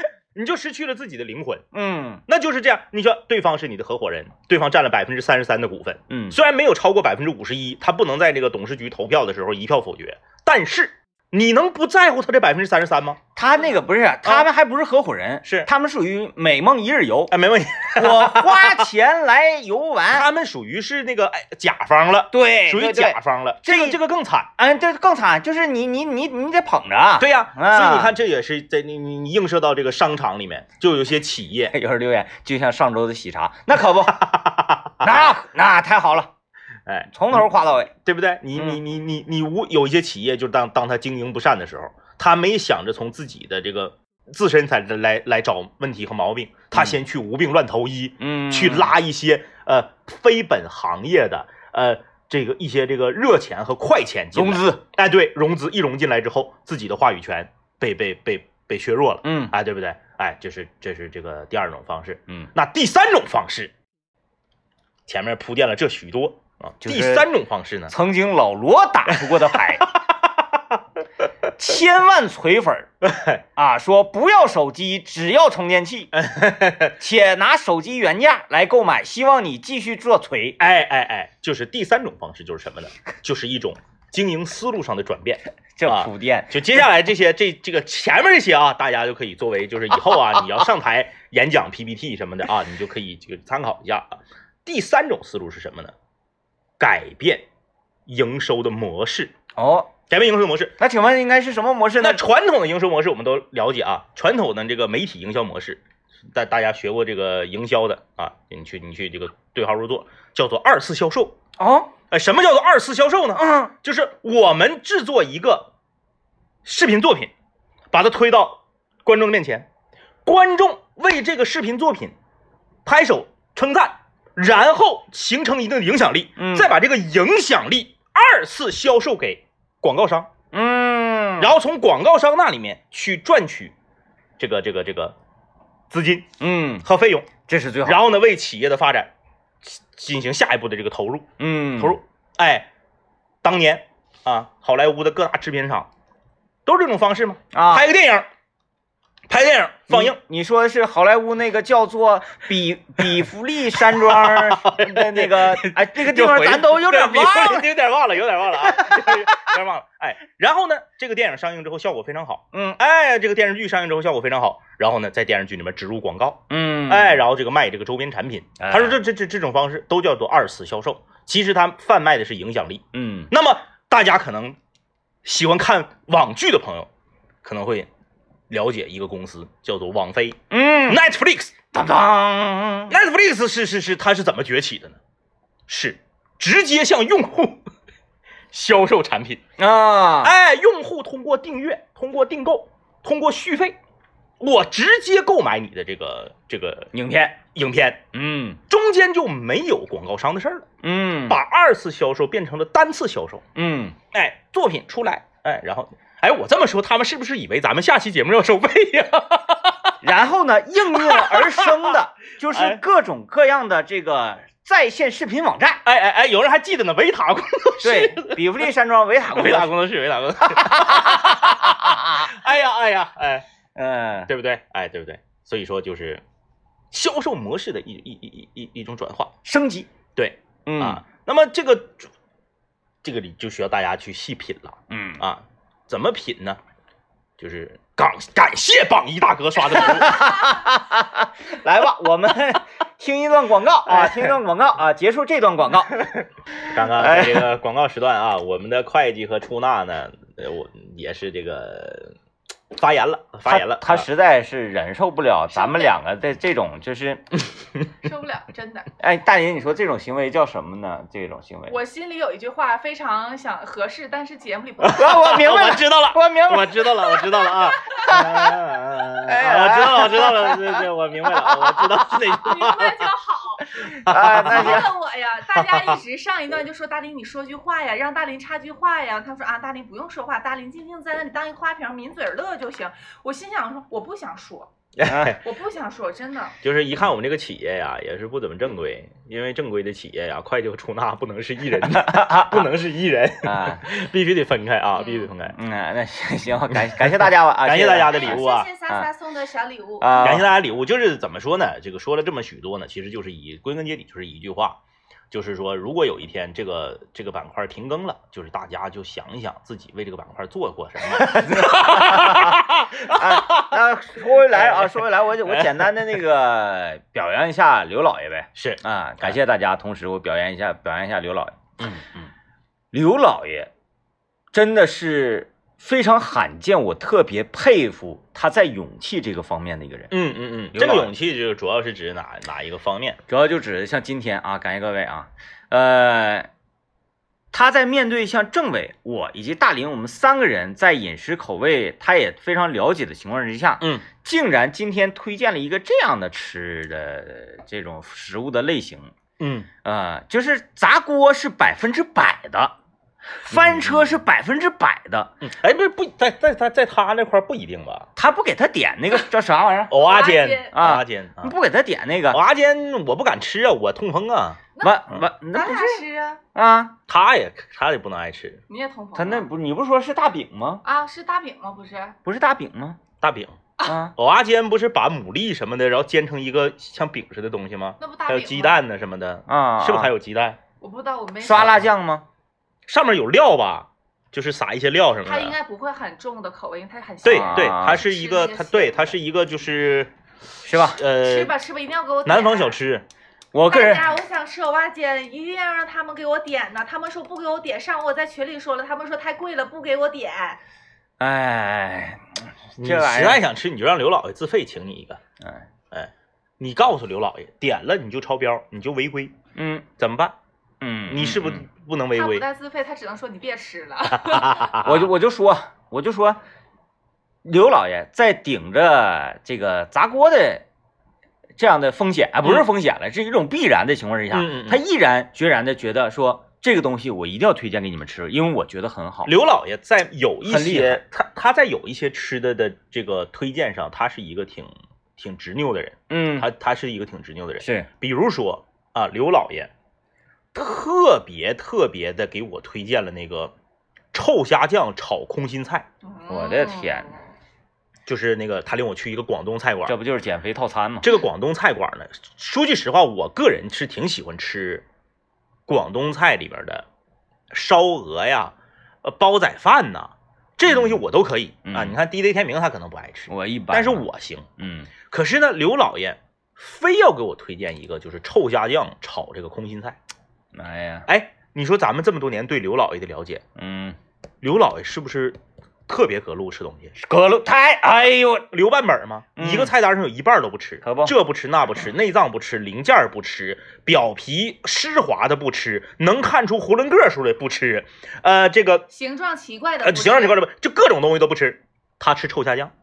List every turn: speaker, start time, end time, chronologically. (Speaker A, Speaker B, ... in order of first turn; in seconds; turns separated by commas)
Speaker A: 0.3-1.6, Speaker B: 1.7-2.2, Speaker A: 2.3-13.2, Speaker B: 6.1-6.4, Speaker B: 13.3-17.3, Speaker A: 17.3-18.8, Speaker B: 17.9-20.3, Speaker A: 20.1-24.5, Speaker B: 22.3-24.0, Speaker B: 24.6-28.1, Speaker A: 27.2-31.7, Speaker B: 31.7-34.2, Speaker A: 34.1-35.4, Speaker B: 35.0-36.3, Speaker A: 36.9-37.4, Speaker B: 37.1-37.9, Speaker A: 38.0-63.7, Speaker B: 38.5-38.8, Speaker B: 48.2-48.9, Speaker B: 54.3-54.8, Speaker B: 59.2-59.5, Speaker A: 65.1-67.9, Speaker B: 66.8-67.3, Speaker B: 67.9-69.9, Speaker B: 71.5-72.9, Speaker A: 73.0-73.4, Speaker B: 73.5-76.1, Speaker A: 76.1-76.9, Speaker B: 77.0-80.6, Speaker A: 80.6-95.9, Speaker B: 85.8-86.6, Speaker A: 96.8-97.5, Speaker A: 98.1-99.3, Speaker B: 99.5-99.9, Speaker A: 100.1-100.8, Speaker B: 100.8-102.2, Speaker A: 102.0-105.8, Speaker A: 106.3-111.3, Speaker B: 111.6-111.9, Speaker A: 112.1-115.7, Speaker B: 113.3-113.7, Speaker A: 116.6-117.3, Speaker A: 117.9-119.7, Speaker A: 120.2-122.1, Speaker A: 122.8-130.3, Speaker B: 126.4-126.7, Speaker B: 130.5-131.5, Speaker A: 131.4-133.7, Speaker A: 134.4-135.1, Speaker A: 135.9-137.3, Speaker B: 136.4-136.8, Speaker B: 137.5-138.0, Speaker A: 137.8-139.1, Speaker A: 139.6-142.7, Speaker B: 141.4-142.0, Speaker A: 143.4-145.9, Speaker A: 146.7-148.3, Speaker B: 147.5-147.9, Speaker A: 149.3-150.2, Speaker B: 149.9-157.7, Speaker A: 153.8-174.6, Speaker B: 158.6-159.5, Speaker B: 162.5-162.8, Speaker B: 166.5-167.2, Speaker B: 168.6-169.0, Speaker B: 172.9-173.3, Speaker A: 175.2-176.9, Speaker A: 177.4-177.9, Speaker A: 178.5-181.5, Speaker B: 180.5-181.0, Speaker B: 181.7-183.0, Speaker A: 182.9-185.0, Speaker A: 185.7-187.6, Speaker A: 188.5-189.4, Speaker B: 189.6-190.3, Speaker A: 190.2-193.8, Speaker A: 194.4-196.9, Speaker B: 196.9-197.4, Speaker A: 197.4-198.0, Speaker B: 198.1-198.6, Speaker A: 198.7-200.7, Speaker B: 200.8-201.4, Speaker A: 201.2-203.4, Speaker B: 203.5-203.9, Speaker A: 204.1-209.9, Speaker B: 210.0-215.8, Speaker A: 210.9-212.0, Speaker A: 212.5-212.8, Speaker A: 215.8-218.6, Speaker B: 217.8-219.7, Speaker A: 219.3-223.4, Speaker B: 220.4-222.3, Speaker B: 223.8-224.3, Speaker A: 224.3-226.2, Speaker A: 226.9-229.3, Speaker B: 229.4-229.9, Speaker A: 230.2-232.1, Speaker B: 230.7-231.0, Speaker A: 233.0-236.6, Speaker B: 234.9-235.2, Speaker A: 237.4-240.6, Speaker B: 239.7-246.1, Speaker A: 243.9-244.3, Speaker A: 246.6-252.1, Speaker B: 246.7-247.5, Speaker A: 252.7-254.1, Speaker B: 253.4-257.2, Speaker C: 255.5-256.0, Speaker C: 258.0-258.9, Speaker B: 259.0-261.8, Speaker C: 261.7-265.4, Speaker A: 264.8-273.1, Speaker B: 264.9-267.2, Speaker C: 267.2-268.1, Speaker B: 268.1-268.6, Speaker B: 269.2-271.9, Speaker C: 272.4-273.7, Speaker B: 273.8-274.9, Speaker A: 273.8-274.9, Speaker C: 274.3-284.7, Speaker A: 275.5-275.9, Speaker A: 285.0-285.4, Speaker B: 285.1-285.3, Speaker C: 285.4-286.6, Speaker A: 286.6-295.6, Speaker B: 291.7-292.7, Speaker B: 293.4-293.8, Speaker C: 295.0-295.3, Speaker B: 295.5-299.1, Speaker A: 296.9-298.7, Speaker C: 298.0-300.3, Speaker B: 300.0-300.5, Speaker A: 300.2-304.8, Speaker A: 305.3-313.8, Speaker B: 311.0-321.6, Speaker A: 314.3-315.8, Speaker A: 318.6-319.4, Speaker A: 321.8-322.2, Speaker B: 322.9-323.7, Speaker B: 324.5-330.1, Speaker A: 330.1-333.2, Speaker B: 330.7-331.1, Speaker B: 333.3-336.5, Speaker B: 337.5-349.1, Speaker A: 343.8-344.1, Speaker A: 349.4-349.7, Speaker B: 349.8-352.7, Speaker B: 353.4-355.3, Speaker A: 353.5-354.2, Speaker A: 355.4-358.1, Speaker B: 358.1-360.0, Speaker A: 359.9-361.5, Speaker C: 359.9-360.7, Speaker B: 360.7-362.4, Speaker A: 362.3-364.6, Speaker C: 364.8-366.4, Speaker B: 364.8-366.0, Speaker B: 366.5-366.9, Speaker A: 367.1-368.6, Speaker C: 368.7-369.5, Speaker B: 369.1-370.8, Speaker C: 370.8-372.1, Speaker B: 372.2-373.0, Speaker A: 373.2-373.6, Speaker B: 373.8-374.1, Speaker A: 374.1-380.6, Speaker C: 378.0-378.8, Speaker B: 379.5-380.1, Speaker C: 380.8-381.9, Speaker B: 381.4-382.2, Speaker A: 382.9-385.5, Speaker C: 385.2-389.2, Speaker A: 387.2-390.1, Speaker B: 387.2-388.0, Speaker B: 390.6-391.0, Speaker A: 390.7-391.5, Speaker C: 391.2-392.8, Speaker A: 392.2-393.0, Speaker B: 393.5-394.1, Speaker C: 393.7-400.6, Speaker B: 401.2-403.4, Speaker A: 402.8-405.2, Speaker B: 405.4-405.7, Speaker A: 405.9-409.4, Speaker B: 409.5-409.9, Speaker A: 410.0-410.3, Speaker B: 410.8-411.6, Speaker A: 411.1-412.4, Speaker C: 412.1-414.7, Speaker A: 414.1-415.1, Speaker B: 414.8-416.4, Speaker B: 417.4-420.6, Speaker B: 421.6-429.3, Speaker A: 424.3-424.8, Speaker A: 429.2-439.7, Speaker B: 430.4-431.0, Speaker B: 436.1-436.5, Speaker B: 437.6-437.9, Speaker A: 440.5-443.5, Speaker A: 444.1-445.9, Speaker C: 446.0-447.1, Speaker B: 446.3-447.1, Speaker A: 448.1-450.0, Speaker B: 449.9-451.1, Speaker A: 451.0-454.8, Speaker A: 455.7-456.9, Speaker A: 457.5-464.5, Speaker B: 460.7-461.0, Speaker B: 461.6-462.0, Speaker B: 463.3-464.1, Speaker B: 464.6-464.9, Speaker A: 465.1-470.0, Speaker B: 470.5-471.1, Speaker A: 471.1-473.4, Speaker B: 473.6-474.0, Speaker A: 474.4-476.9, Speaker B: 477.0-478.5, Speaker A: 478.5-488.9, Speaker B: 479.4-479.7, Speaker B: 480.8-481.1, Speaker C: 488.9-490.4, Speaker A: 489.8-492.7